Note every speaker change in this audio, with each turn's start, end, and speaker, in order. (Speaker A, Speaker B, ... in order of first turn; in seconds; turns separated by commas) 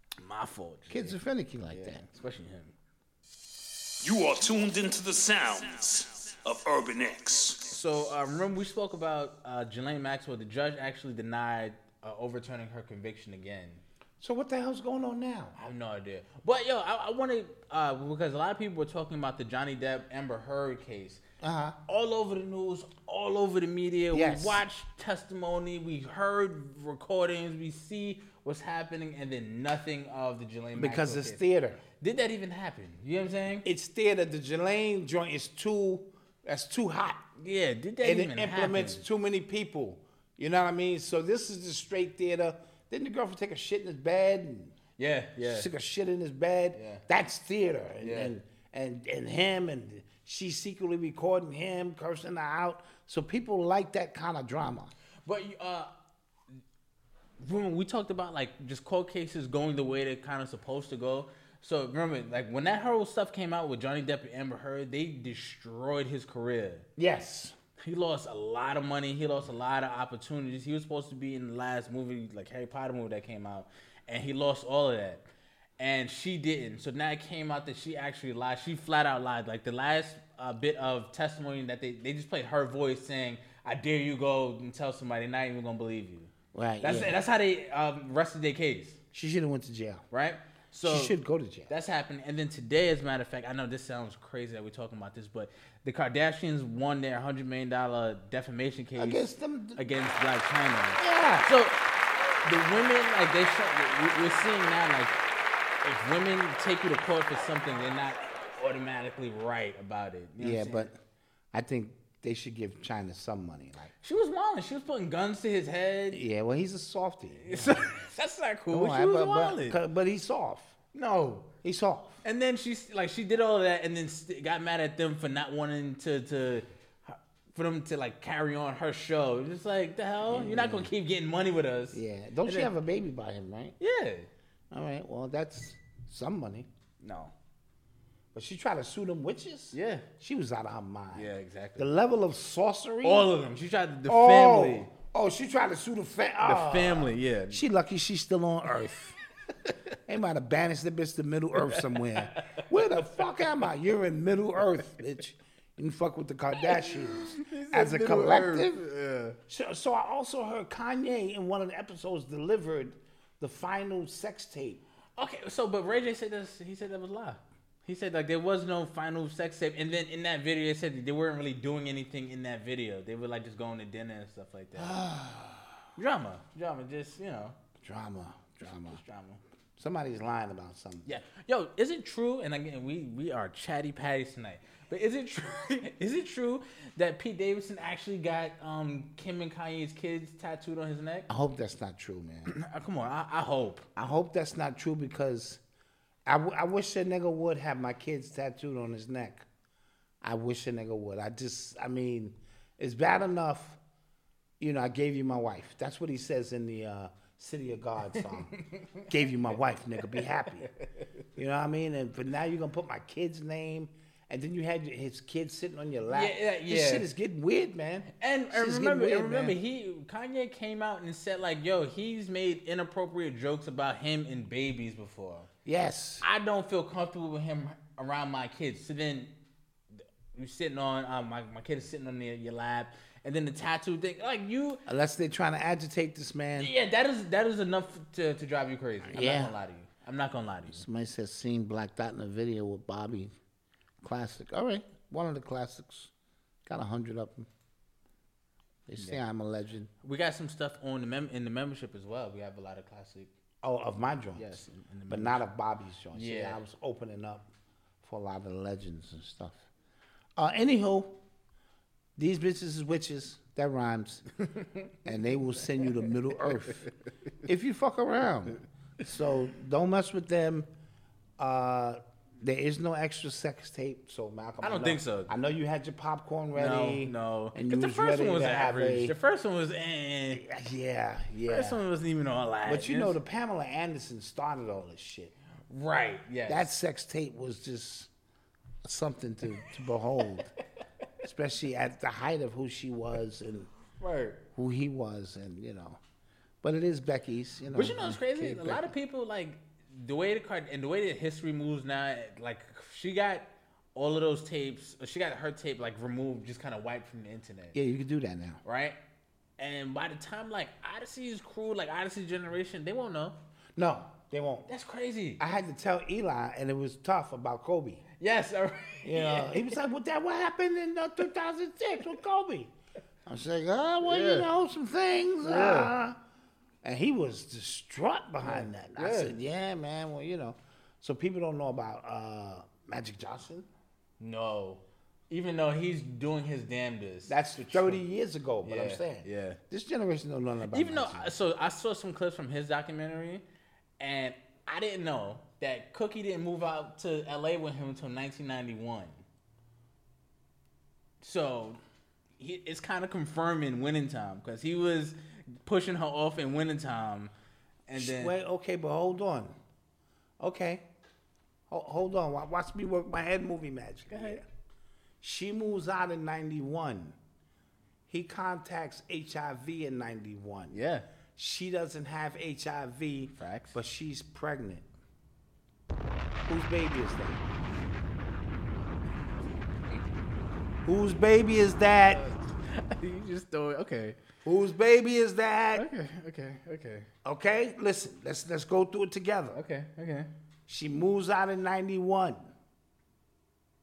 Speaker A: 0.2-1.2, Speaker B: 0.9-2.0, Speaker A: 1.7-2.7, Speaker C: 4.0-7.7, Speaker A: 7.7-13.8, Speaker B: 14.2-15.6, Speaker A: 15.6-21.2, Speaker B: 21.4-21.8, Speaker A: 21.9-31.4, Speaker B: 24.1-24.6, Speaker B: 30.8-31.8, Speaker A: 32.0-33.7, Speaker B: 33.6-37.2, Speaker A: 37.4-39.0, Speaker B: 38.0-44.7, Speaker A: 45.0-45.7, Speaker B: 45.4-54.9, Speaker A: 46.8-47.0, Speaker A: 48.0-48.3, Speaker A: 55.3-55.9, Speaker A: 57.4-66.9, Speaker B: 67.0-67.5, Speaker A: 67.8-75.2, Speaker A: 75.8-89.0, Speaker B: 86.5-87.2, Speaker B: 89.1-90.0, Speaker A: 90.1-91.2, Speaker B: 90.8-91.7, Speaker A: 91.7-99.3, Speaker B: 99.0-99.8, Speaker A: 99.8-101.8, Speaker B: 101.0-101.5, Speaker A: 102.5-105.2, Speaker A: 105.8-110.9, Speaker B: 110.4-111.0, Speaker B: 111.5-113.9, Speaker A: 114.0-116.2, Speaker B: 116.1-117.9, Speaker A: 117.5-119.8, Speaker B: 118.7-120.8, Speaker A: 120.9-121.5, Speaker B: 121.6-122.2, Speaker A: 122.2-132.7, Speaker B: 130.3-130.9, Speaker B: 131.9-133.8, Speaker A: 133.8-134.3, Speaker B: 134.7-136.7, Speaker A: 137.0-137.3, Speaker B: 138.3-143.3, Speaker A: 139.7-140.1, Speaker A: 141.1-141.9, Speaker A: 143.0-144.9, Speaker B: 144.1-149.2, Speaker A: 146.4-147.6, Speaker B: 150.1-158.8, Speaker A: 151.9-152.5, Speaker A: 156.7-159.4, Speaker B: 159.5-164.8, Speaker A: 165.2-174.9, Speaker B: 174.8-175.7, Speaker A: 176.0-177.6, Speaker B: 177.8-179.0, Speaker A: 178.9-179.4, Speaker B: 179.8-181.1, Speaker A: 181.1-191.3, Speaker B: 191.3-192.5, Speaker A: 192.5-193.9, Speaker B: 194.0-195.6, Speaker B: 196.3-199.4, Speaker B: 200.2-203.8, Speaker B: 204.6-208.6, Speaker A: 208.6-209.0, Speaker B: 209.1-210.7, Speaker B: 211.4-219.6, Speaker A: 216.1-217.1, Speaker A: 218.1-225.5, Speaker B: 225.7-226.3, Speaker A: 226.2-229.3, Speaker A: 230.0-234.8, Speaker B: 234.9-236.7, Speaker A: 236.6-240.8, Speaker B: 239.1-239.6, Speaker B: 240.7-243.3, Speaker B: 244.0-246.1, Speaker B: 246.7-247.5, Speaker B: 248.9-249.9, Speaker A: 250.0-253.3, Speaker B: 253.6-257.5, Speaker A: 254.4-255.4, Speaker A: 256.1-256.6, Speaker B: 258.0-259.6, Speaker B: 260.4-261.1, Speaker B: 262.2-264.2, Speaker B: 265.1-266.9, Speaker B: 267.4-270.7, Speaker B: 271.4-279.1, Speaker A: 274.6-275.3, Speaker A: 276.6-280.4, Speaker B: 280.4-281.8, Speaker A: 281.5-283.2, Speaker B: 282.7-285.3, Speaker A: 285.7-286.7, Speaker B: 286.5-288.1, Speaker B: 288.9-290.5, Speaker B: 291.2-293.7, Speaker A: 294.0-294.4, Speaker B: 294.6-296.0, Speaker B: 296.6-298.9, Speaker A: 297.7-307.8, Speaker B: 307.7-308.6, Speaker A: 308.6-309.0, Speaker A: 309.6-313.4, Speaker B: 313.8-314.7, Speaker A: 314.7-315.4, Speaker B: 315.4-318.1, Speaker A: 318.2-319.8, Speaker B: 319.0-322.7, Speaker B: 323.3-326.2, Speaker A: 324.0-324.5, Speaker A: 325.4-325.9, Speaker B: 326.8-333.7, Speaker A: 328.4-329.3, Speaker A: 334.2-338.0, Speaker B: 337.3-341.3, Speaker A: 338.6-339.6, Speaker A: 340.7-343.4, Speaker A: 344.0-349.2, Speaker A: 351.2-351.8, Speaker A: 352.4-357.3, Speaker A: 357.9-358.3, Speaker B: 357.9-359.6, Speaker B: 360.4-360.9, Speaker B: 361.7-364.4, Speaker A: 364.1-364.4, Speaker B: 365.2-367.2, Speaker B: 368.1-370.8, Speaker A: 370.7-371.1, Speaker B: 371.4-374.9, Speaker A: 373.4-373.8, Speaker B: 376.5-377.4, Speaker B: 380.9-382.2, Speaker A: 382.1-384.2, Speaker B: 384.4-385.9, Speaker A: 385.8-387.1, Speaker B: 387.2-389.6, Speaker A: 389.5-390.3, Speaker B: 390.7-392.5